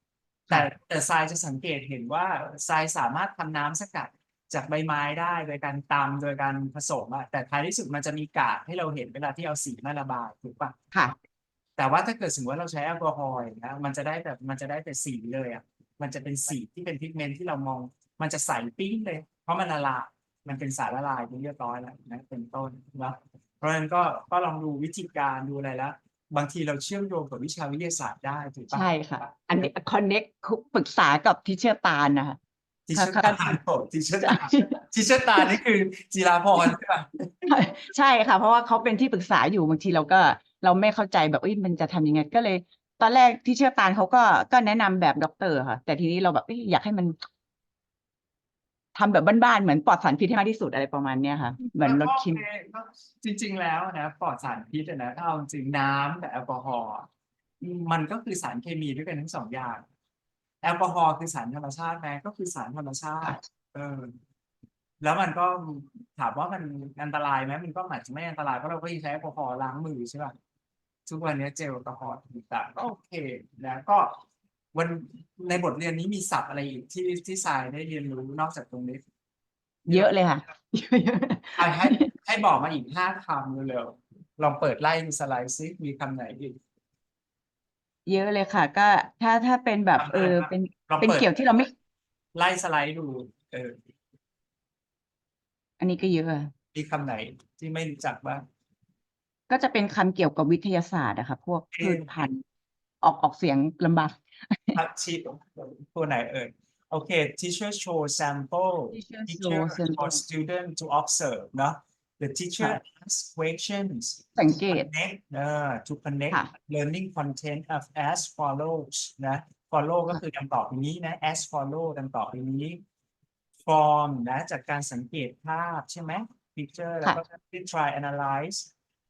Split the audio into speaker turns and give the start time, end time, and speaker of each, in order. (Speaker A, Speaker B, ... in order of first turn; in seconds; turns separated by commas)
Speaker A: 0.5-10.7, Speaker A: 11.8-28.9, Speaker B: 28.7-32.4, Speaker A: 32.9-37.5, Speaker B: 33.0-33.5, Speaker B: 34.2-34.8, Speaker B: 37.5-47.1, Speaker B: 48.9-52.4, Speaker A: 51.6-57.1, Speaker A: 57.6-59.8, Speaker A: 60.6-64.1, Speaker A: 65.0-70.3, Speaker A: 71.0-74.2, Speaker A: 74.7-79.0, Speaker B: 79.9-82.1, Speaker A: 81.6-86.6, Speaker B: 88.0-91.7, Speaker A: 90.0-91.3, Speaker A: 92.3-93.8, Speaker B: 95.8-96.5, Speaker A: 96.7-98.4, Speaker B: 99.5-102.4, Speaker A: 101.7-102.1, Speaker B: 103.0-104.8, Speaker A: 104.7-122.8, Speaker B: 108.9-110.2, Speaker B: 114.4-114.9, Speaker A: 123.6-128.7